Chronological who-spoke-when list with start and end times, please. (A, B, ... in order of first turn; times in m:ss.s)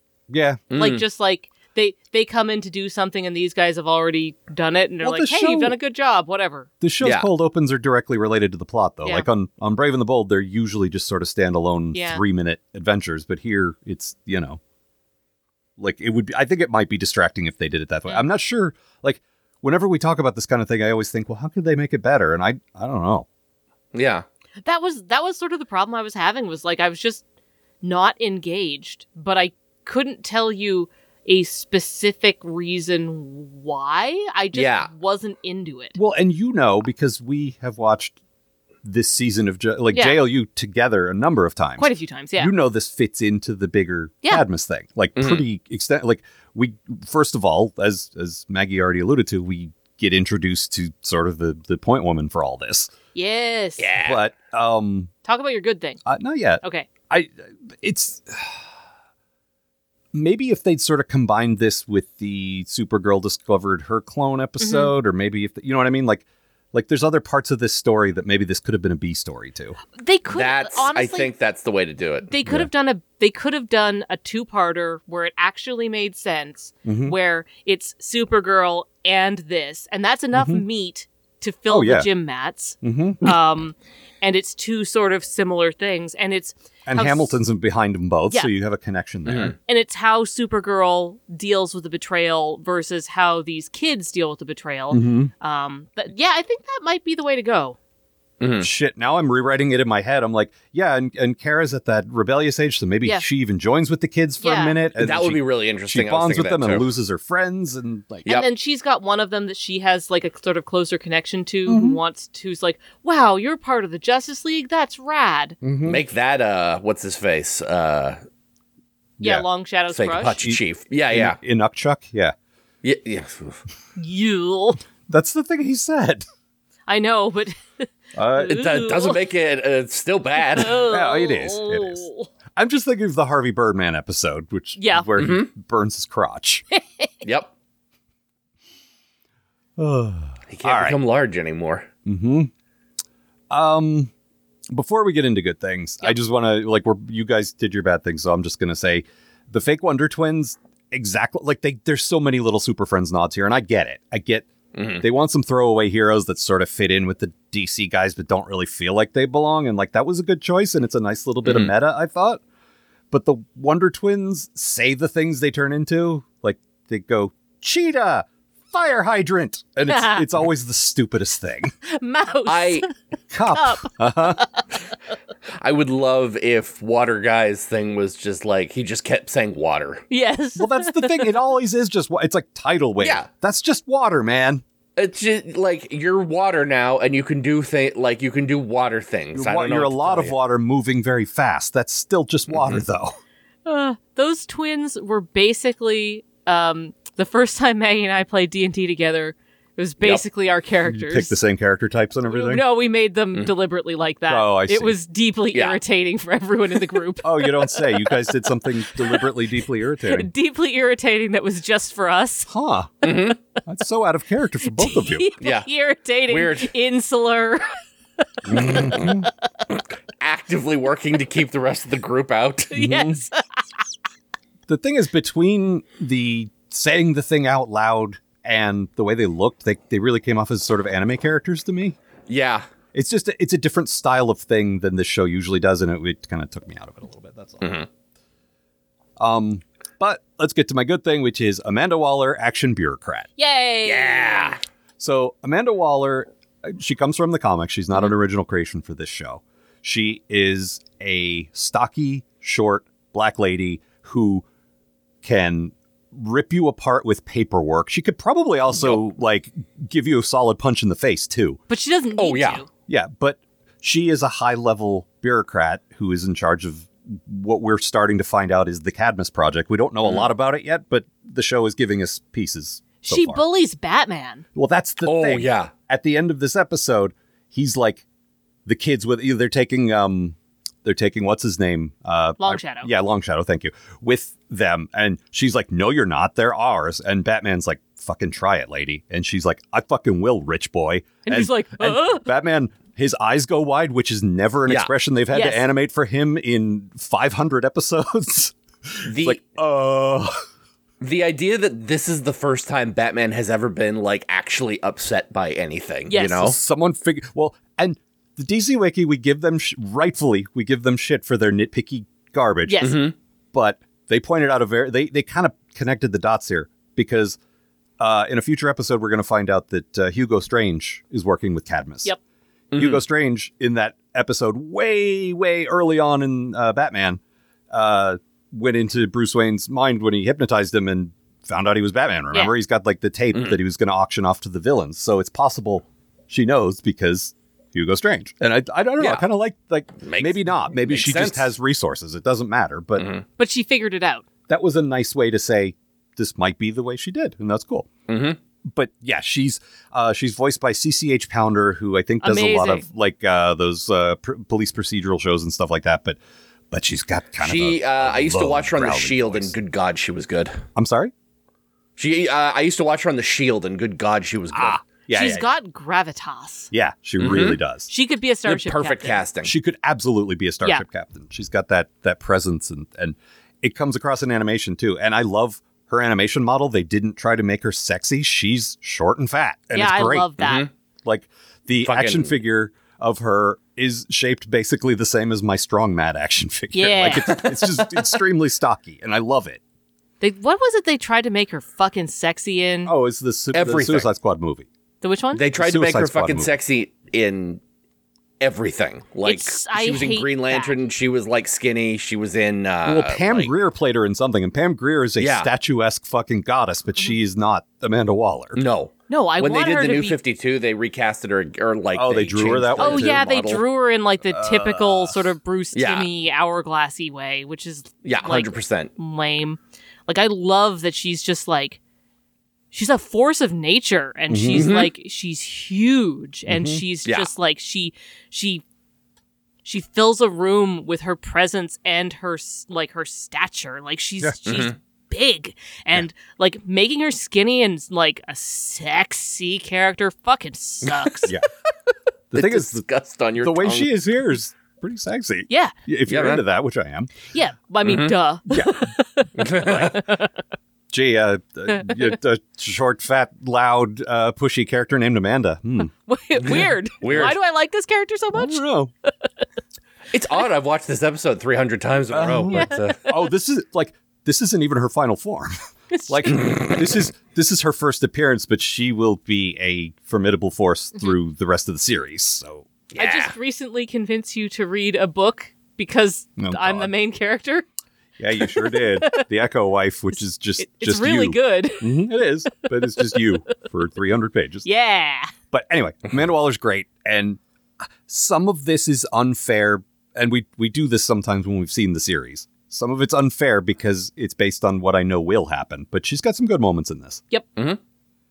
0:00.3-0:00.6 A
0:00.7-0:01.0 B
0:00.8-0:06.7 C
0:05.0-0:05.8 A
0:06.8-0:14.6 A
0:07.0-0:07.3 B
0:11.9-0:12.2 C
0:15.8-0:23.2 A
0:23.9-0:24.2 B
0:24.6-0:27.2 C
0:27.8-0:36.0 C
0:34.5-0:34.9 B
0:35.9-0:38.2 A
0:38.8-0:52.9 A
0:39.9-0:40.2 C
0:41.8-0:42.5 C
0:45.2-0:45.4 B
0:53.1-0:53.9 C
0:53.8-0:54.2 B
0:54.0-0:55.1 A
0:55.2-0:56.0 C
0:56.0-0:58.6 A
0:56.6-0:56.9 C
1:00.1-1:09.8 A
1:04.6-1:04.9 C
1:10.0-1:11.3 C
1:10.3-1:12.3 B
1:12.3-1:27.4 C
1:16.8-1:17.1 A
1:20.3-1:20.6 A
1:21.7-1:22.1 A
1:22.8-1:23.3 A
1:26.8-1:29.6 A
1:29.2-1:29.5 B
1:29.6-1:37.8 C
1:34.9-1:35.3 A
1:38.4-1:38.7 B
1:38.6-1:48.3 A
1:44.4-1:44.8 C
1:45.0-1:46.9 B
1:48.2-1:55.6 C
1:51.7-1:52.0 A
1:55.6-1:56.0 A
1:55.8-1:58.2 B
1:59.2-1:59.4 A
1:59.2-2:00.4 C
1:59.9-2:01.4 B
2:01.1-2:02.3 A
2:02.8-2:03.6 B
2:04.0-2:04.8 C
2:05.1-2:06.2 A
2:06.9-2:09.2 C
2:08.1-2:08.6 A
2:08.5-2:10.8 B
2:10.4-2:12.3 C
2:10.8-2:12.0 A
2:12.6-2:16.6 A
2:14.8-2:15.1 C
2:15.2-2:15.5 B
2:17.2-2:17.5 B
2:19.8-2:21.0 A
2:20.5-2:21.9 B
2:22.0-2:22.5 A
2:23.5-2:24.1 A
2:24.7-2:34.5 A
2:34.7-2:35.0 B
2:35.0-2:42.4 A
2:41.4-2:41.7 B
2:43.1-2:51.7 A
2:49.8-2:50.3 C
2:51.9-2:52.9 C
2:52.4-2:52.8 B
2:53.3-2:54.4 A
2:53.5-2:54.6 C
2:55.6-3:00.0 B
3:00.1-3:01.4 C
3:00.6-3:04.6 A
3:03.0-3:03.3 B
3:05.0-3:10.3 B
3:09.3-3:13.2 A
3:12.5-3:12.8 B
3:13.6-3:21.4 C
3:20.9-3:22.6 A
3:22.3-3:28.3 C
3:24.3-3:25.0 A
3:25.5-3:25.8 B
3:27.2-3:30.3 A
3:30.0-3:32.5 C
3:32.5-3:32.9 A
3:33.0-3:33.4 B
3:33.6-3:35.3 A
3:34.7-3:37.7 C
3:35.4-3:35.7 B
3:36.3-3:36.7 B
3:38.5-3:39.1 C
3:38.5-3:39.3 A
3:38.6-3:39.1 B
3:40.2-3:42.7 B
3:42.7-3:43.6 C
3:42.8-3:43.2 A
3:44.7-3:52.0 A
3:52.3-3:52.6 B
3:52.9-3:57.7 A
3:57.6-3:57.9 B
3:59.2-4:03.3 A
4:03.4-4:04.6 C
4:03.8-4:04.6 B
4:05.0-4:14.4 A
4:15.2-4:21.6 A
4:21.7-4:22.7 C
4:22.2-4:22.6 B
4:22.9-4:33.4 A
4:30.0-4:30.3 B
4:33.0-4:34.4 C
4:34.5-4:38.0 A
4:35.0-4:35.7 B
4:38.6-5:00.3 A
4:42.4-4:42.9 C
4:51.2-4:52.3 C
4:55.3-4:55.6 C
4:59.0-4:59.4 B
5:01.0-5:06.6 B
5:06.1-5:06.5 C
5:06.2-5:12.9 A
5:12.6-5:13.0 C
5:12.8-5:13.1 B
5:13.5-5:17.4 A
5:18.0-5:22.1 A
5:22.7-5:23.0 B
5:22.7-5:43.1 A
5:40.0-5:41.5 B
5:43.0-5:43.2 B
5:43.4-5:44.2 C
5:44.5-5:47.9 A
5:48.1-5:48.4 B
5:48.7-5:56.2 A
5:52.2-5:52.8 C
5:56.7-5:59.5 A
5:57.4-6:00.6 B
6:00.7-6:01.1 A
6:02.0-6:04.8 B
6:04.5-6:05.5 A
6:05.1-6:06.7 C
6:06.7-6:07.9 A
6:07.2-6:07.6 B
6:07.9-6:09.2 C
6:08.4-6:09.5 B
6:09.4-6:20.3 A
6:19.7-6:20.7 C
6:20.4-6:20.7 B
6:21.0-6:29.6 A
6:21.8-6:22.3 B
6:26.7-6:27.4 C
6:30.2-6:32.9 C
6:32.8-6:34.7 A
6:33.5-6:34.1 B
6:35.0-6:35.4 C
6:35.3-6:37.6 B
6:35.5-6:36.5 A
6:38.4-6:43.5 B
6:39.2-6:40.8 C
6:42.8-6:48.6 A
6:45.2-6:45.5 B
6:48.6-6:53.6 B
6:49.1-6:50.2 C
6:51.9-6:53.3 A
6:52.8-7:01.8 C
6:54.2-6:55.2 A
6:55.7-6:56.1 B
6:58.0-6:58.9 B
7:02.7-7:08.6 C
7:04.3-7:04.7 A
7:04.5-7:04.9 B
7:06.5-7:06.8 A
7:09.6-7:21.3 C
7:14.4-7:14.7 B
7:20.8-7:21.1 B
7:22.3-7:22.8 A
7:22.3-7:23.9 B
7:23.4-7:27.1 A
7:25.5-7:25.7 C
7:26.1-7:26.4 B
7:27.3-7:30.3 C
7:27.8-7:28.1 B
7:28.5-7:28.9 A
7:29.4-7:30.0 B
7:29.6-7:29.9 A
7:30.9-7:35.9 A
7:36.0-7:39.1 C
7:36.4-7:37.4 B
7:38.3-7:38.9 A
7:40.1-7:43.0 B
7:42.1-7:45.5 A
7:42.5-7:43.1 C
7:45.9-7:46.4 C
7:46.1-7:52.7 A
7:46.4-7:46.7 B
7:52.9-7:53.3 B
7:52.9-7:57.6 C
7:56.4-7:56.9 A
7:58.2-8:04.7 A
7:58.4-7:59.2 C
8:00.6-8:02.0 C
8:03.0-8:03.2 C
8:04.6-8:05.3 C
8:05.5-8:07.4 A
8:08.0-8:17.2 A